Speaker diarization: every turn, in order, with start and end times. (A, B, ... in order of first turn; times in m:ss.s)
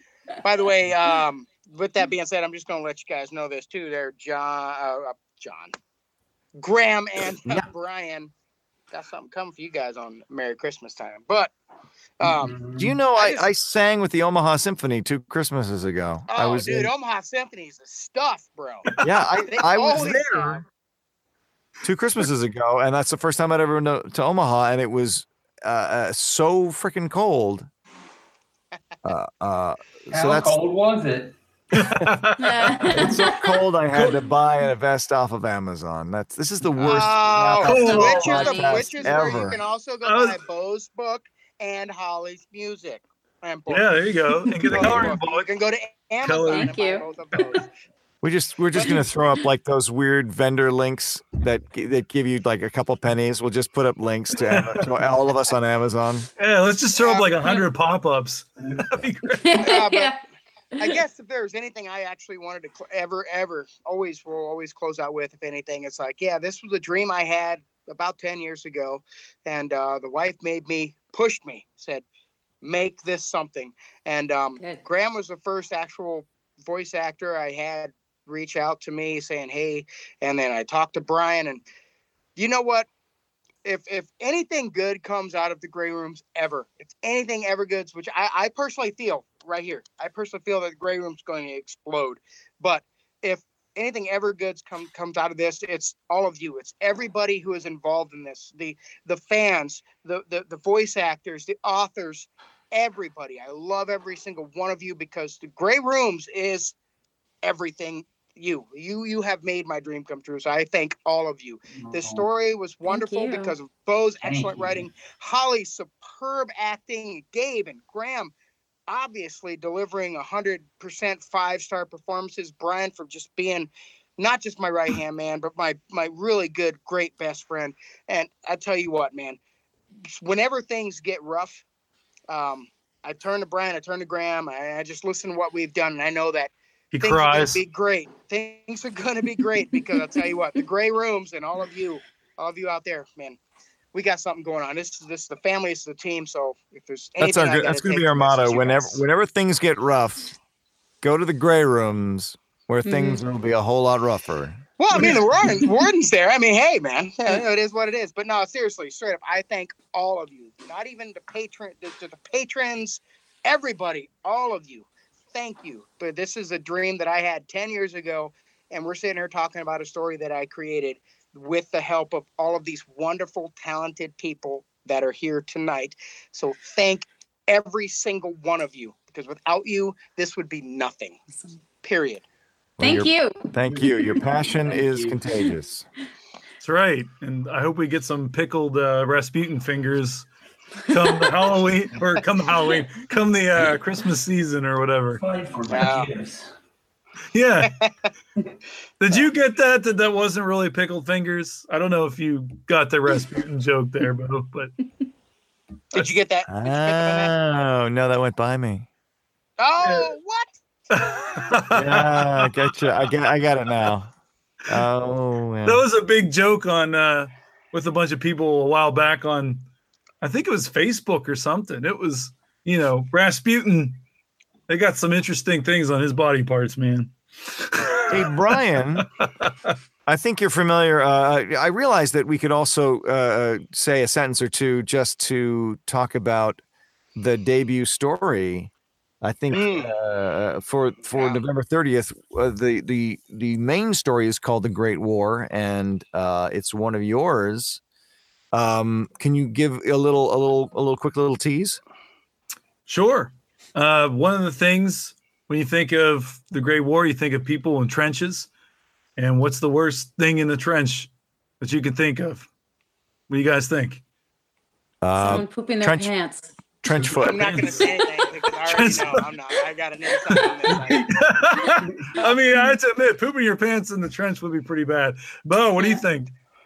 0:00.4-0:05.7 A
0:06.6-0:08.3 A
0:08.9-0:11.5 A
0:12.2-0:12.6 A
0:12.2-0:13.0 B
0:12.8-0:16.9 C
0:13.1-0:13.5 A
0:16.3-0:18.8 A
0:18.9-0:19.2 D
0:19.0-0:20.6 C
0:19.5-0:20.6 A
0:21.8-0:27.7 C
0:29.0-0:30.6 C
0:30.1-0:31.4 B
0:31.7-0:33.1 D
0:32.4-0:33.6 E
0:32.8-0:39.6 C
0:33.9-0:34.2 D
0:36.8-0:43.9 A
0:37.6-0:38.3 D
0:37.6-0:39.3 E
0:40.0-0:40.4 D
0:43.7-0:45.5 D
0:44.6-0:47.7 A
0:44.7-0:45.2 C
0:46.2-0:46.7 D
0:46.5-0:47.0 E
0:48.2-0:56.3 C
0:54.4-0:54.9 D
0:56.4-0:59.6 D
0:57.0-0:57.3 A
0:59.3-1:00.2 E
0:59.6-1:00.1 A
1:00.8-1:12.0 A
1:12.6-1:21.6 A
1:22.4-1:22.9 A
1:23.6-1:46.7 A
1:47.4-1:58.3 A
1:51.8-1:52.2 B
1:52.8-1:53.5 E
1:54.2-1:54.9 B
1:58.9-2:09.4 A
2:10.0-2:11.6 A
2:12.3-2:23.4 A
2:16.9-2:17.6 D
2:23.9-2:29.0 A
2:27.2-2:30.4 C
2:31.0-2:35.0 C
2:32.8-2:33.2 E
2:34.8-3:01.2 A
3:01.8-3:02.2 A
3:02.8-3:05.8 C
3:02.8-3:03.5 E
3:04.6-3:05.2 B
3:06.6-3:10.3 D
3:10.9-3:15.2 D
3:15.2-3:16.5 B
3:15.7-3:16.1 A
3:17.3-3:17.7 D
3:17.6-3:18.1 A
3:19.0-3:24.7 D
3:25.9-3:27.3 A
3:26.5-3:28.9 C
3:29.6-3:30.5 A
3:29.8-3:30.1 D
3:30.9-3:32.9 D
3:31.7-3:34.1 C
3:34.7-3:35.8 C
3:35.6-3:39.6 D
3:40.2-3:44.0 D
3:44.7-3:49.7 D
3:48.1-3:49.0 C
3:50.0-3:56.6 C
3:57.2-3:58.7 C
3:59.2-4:07.8 C
3:59.5-3:59.9 A
4:01.1-4:01.4 A
4:08.5-4:11.8 C
4:12.8-4:18.5 D
4:19.2-4:22.5 D
4:23.3-4:24.0 D
4:25.0-4:26.1 C
4:25.1-4:26.5 E
4:26.8-4:27.6 C
4:27.1-4:31.1 A
4:27.3-4:29.3 D
4:30.3-4:36.3 D